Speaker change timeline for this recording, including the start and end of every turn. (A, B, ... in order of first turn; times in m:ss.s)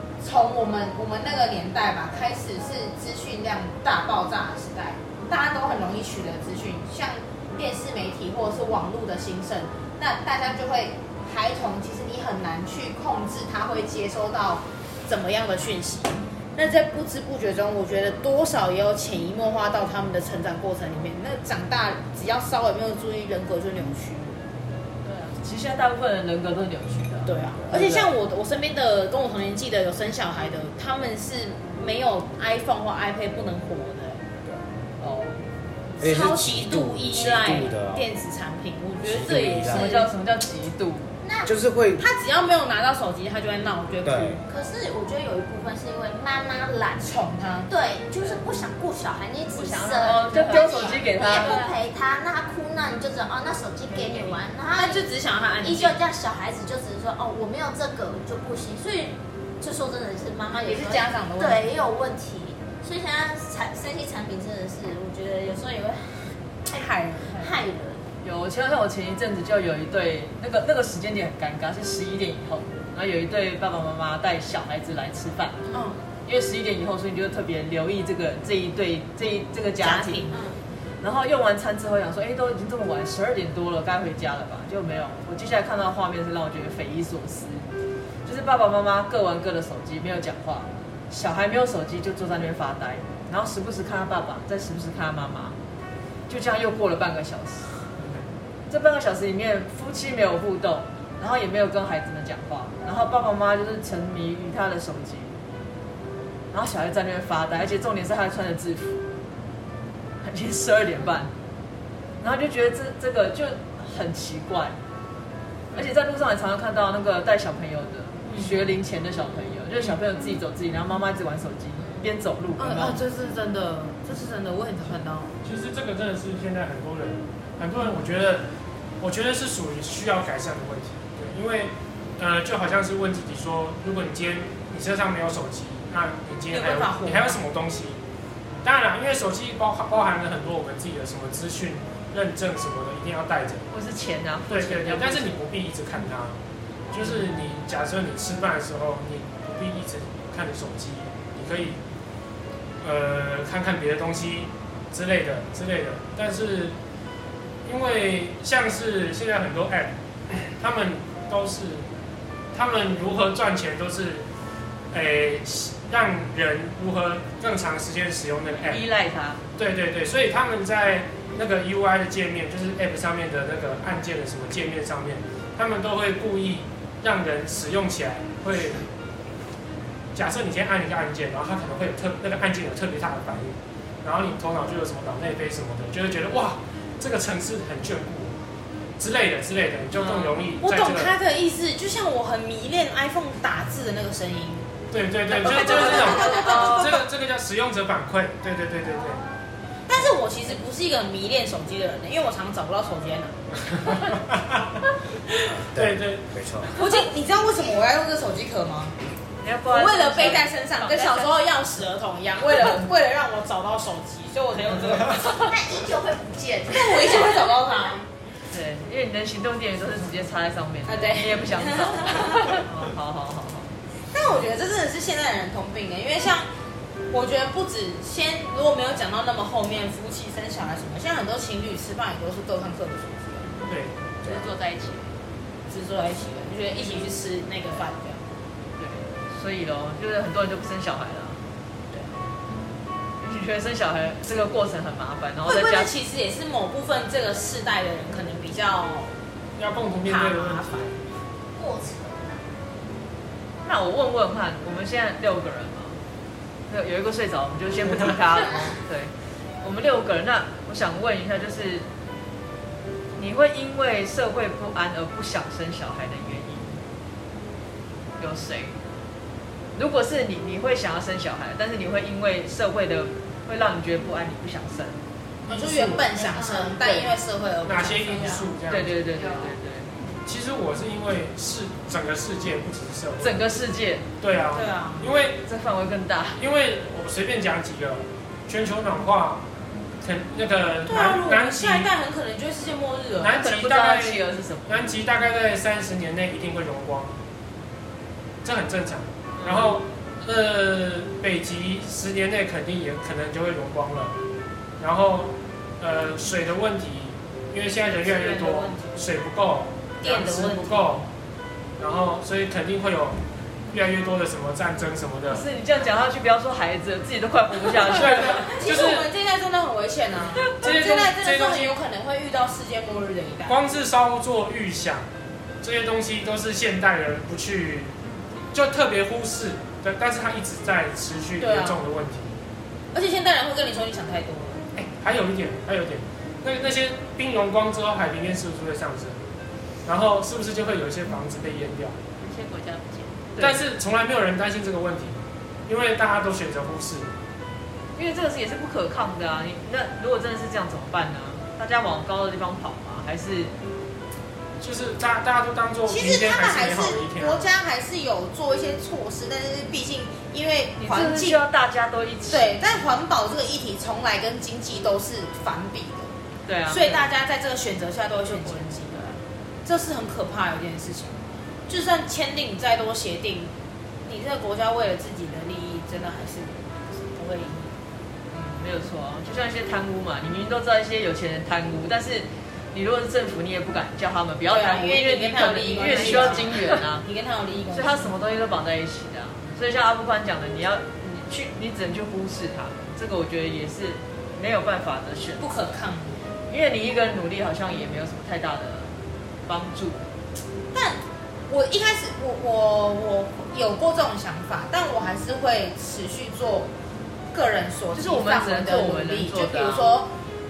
0:00.2-0:24.4 A
0:25.0-0:25.4 B
0:25.4-0:28.1 C
0:27.2-0:34.3 A
0:35.0-0:35.4 C
0:36.0-0:38.0 D
0:36.0-0:40.1 A
0:39.0-0:40.0 D
0:39.6-0:41.1 C
0:41.2-0:41.5 E
0:41.4-0:42.0 D
0:42.0-0:44.4 A
0:44.0-0:44.4 D
0:44.5-0:47.1 E
0:47.0-0:47.7 A
0:47.7-0:55.1 E
0:49.7-0:51.6 C
0:50.2-0:51.7 B
0:54.0-0:54.3 C
0:54.7-0:56.0 A
0:55.6-1:08.1 E
1:00.5-1:01.6 A
1:06.7-1:07.5 A
1:08.2-1:15.6 C
1:15.7-1:16.0 A
1:16.2-1:20.2 C
1:19.8-1:20.4 A
1:21.0-1:27.7 C
1:28.2-1:35.6 C
1:36.3-1:37.8 C
1:38.0-1:38.3 F
1:38.7-1:45.4 C
1:46.5-1:49.0 C
1:50.2-1:51.3 C
1:52.2-1:54.8 C
1:55.7-2:03.0 C
1:58.2-1:58.6 A
2:02.6-2:05.3 A
2:05.4-2:08.5 F
2:09.0-2:18.0 F
2:16.5-2:17.4 A
2:18.6-2:23.7 F
2:23.7-2:25.4 C
2:24.5-2:26.4 F
2:26.9-2:31.8 F
2:32.8-2:36.8 F
2:37.6-2:41.8 F
2:42.5-2:44.2 F
2:44.9-2:48.8 F
2:48.7-2:49.4 C
2:49.6-2:58.9 F
3:00.1-3:08.3 F
3:09.0-3:11.1 F
3:10.0-3:10.3 C
3:10.6-3:14.7 A
3:14.9-3:19.2 F
3:15.3-3:17.1 A
3:15.4-3:16.9 C
3:19.9-3:24.1 A
3:24.3-3:24.6 F
3:25.5-3:26.7 D
3:25.7-3:26.2 F
3:26.8-3:28.9 A
3:29.4-3:31.3 C
3:29.7-3:35.5 A
3:35.1-3:37.5 E
3:36.7-3:38.1 A
3:38.5-3:43.7 C
3:40.9-3:42.6 A
3:44.1-3:46.5 A
3:47.1-3:53.5 A
3:53.7-3:53.9 F
3:54.2-3:55.1 B
3:55.7-3:58.2 A
3:58.8-4:01.4 C
4:03.2-4:05.9 C
4:05.4-4:09.1 A
4:09.6-4:11.0 F
4:10.0-4:10.8 A
4:11.6-4:12.4 E
4:13.6-4:16.0 C
4:16.7-4:21.9 C
4:23.1-4:26.8 C
4:28.2-4:28.8 C
4:29.7-4:35.0 C
4:35.5-4:38.5 A
4:35.8-4:37.1 E
4:37.6-4:39.0 F
4:38.7-4:39.9 C
4:39.2-4:39.5 B
4:40.2-4:43.4 F
4:43.2-4:44.0 C
4:44.2-4:45.4 F
4:44.5-4:45.1 A
4:45.4-4:46.4 C
4:46.4-4:49.4 F
4:50.0-4:51.9 F
4:50.9-4:53.4 A
4:53.2-4:57.1 F
4:53.3-4:54.9 C
4:58.4-5:04.1 F
4:59.4-4:59.8 C
5:04.8-5:11.0 F
5:07.9-5:09.0 A
5:10.0-5:11.0 A
5:11.8-5:13.2 F
5:13.7-5:15.4 F
5:15.3-5:18.4 C
5:17.8-5:19.1 F
5:17.9-5:23.6 A
5:20.5-5:21.8 F
5:23.4-5:25.1 F
5:25.6-5:27.9 F
5:28.5-5:32.4 F
5:31.4-5:31.8 A
5:32.9-5:34.6 A
5:34.8-5:39.2 F
5:39.8-5:42.0 F
5:42.2-5:43.3 B
5:43.4-5:47.1 F
5:48.0-5:53.5 C
5:54.6-5:57.5 F
5:55.9-6:01.4 A
6:00.8-6:02.8 C
6:02.3-6:06.1 A
6:06.4-6:07.1 C
6:06.7-6:09.0 A
6:08.2-6:09.2 B
6:09.6-6:13.5 A
6:14.0-6:17.7 A
6:18.3-6:27.0 C
6:24.4-6:28.1 A
6:25.8-6:26.5 B
6:27.7-6:35.8 C
6:35.4-6:36.2 A
6:36.5-6:38.9 C
6:39.4-6:40.0 C
6:40.7-6:46.7 A
6:47.3-6:50.1 A
6:47.9-6:50.0 C